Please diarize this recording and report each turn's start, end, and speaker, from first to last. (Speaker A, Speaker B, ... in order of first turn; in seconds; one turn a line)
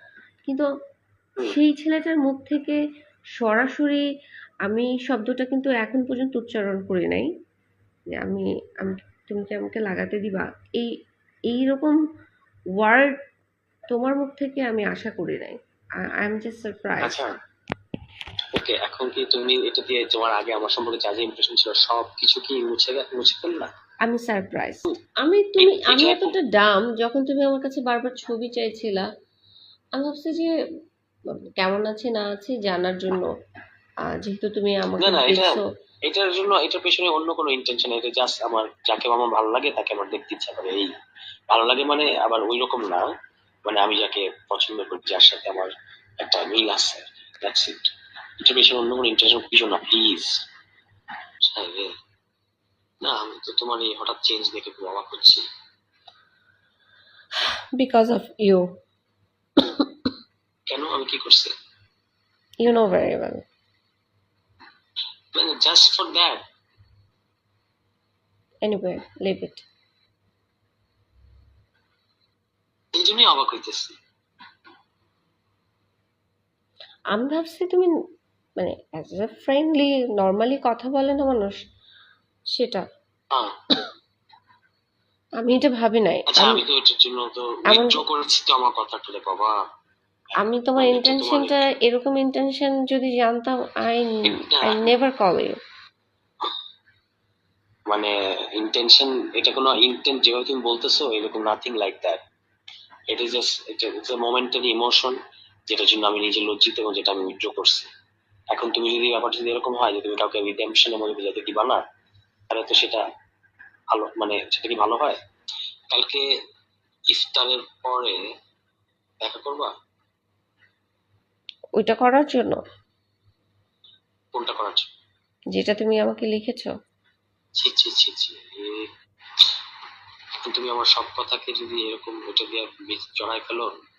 Speaker A: 1.4-2.8
Speaker A: 3.4-4.0
Speaker A: 4.7-7.3
Speaker A: 8.1-10.9
Speaker A: 11.5-12.0
Speaker A: 12.8-13.1
Speaker A: 13.9-17.2
Speaker B: 17.0-17.3
Speaker B: 18.5-23.7
Speaker A: 24.1-29.1
Speaker B: 25.6-26.4
Speaker A: 29.9-30.5
Speaker A: 31.6-33.3
Speaker A: 34.1-35.6
Speaker B: 35.0-40.9
Speaker B: 41.5-43.1
Speaker B: 43.6-50.4
Speaker B: 51.5-51.9
Speaker B: 53.0-55.4
Speaker A: 57.8-58.7
Speaker A: 59.6-59.9
Speaker B: 60.7-61.5
Speaker A: 62.6-63.4
Speaker B: 65.3-66.4
Speaker A: 68.6-69.6
Speaker B: 72.9-73.9
Speaker A: 77.1-77.9
Speaker A: 78.6-81.6
Speaker A: 82.5-82.8
Speaker A: 85.4-86.6
Speaker B: 86.3-89.5
Speaker A: 87.7-88.0
Speaker A: 90.4-95.6
Speaker B: 90.8-91.6
Speaker B: 94.5-94.9
Speaker B: 97.9-102.2
Speaker B: 103.1-105.2
Speaker B: 105.7-107.9
Speaker B: 108.5-111.8
Speaker B: 112.5-113.0
Speaker B: 113.9-115.2
Speaker B: 115.9-116.2
Speaker B: 117.1-118.2
Speaker B: 119.2-119.7
Speaker A: 121.8-122.6
Speaker B: 124.3-124.9
Speaker A: 125.5-126.7
Speaker B: 127.6-128.9
Speaker B: 130.4-133.7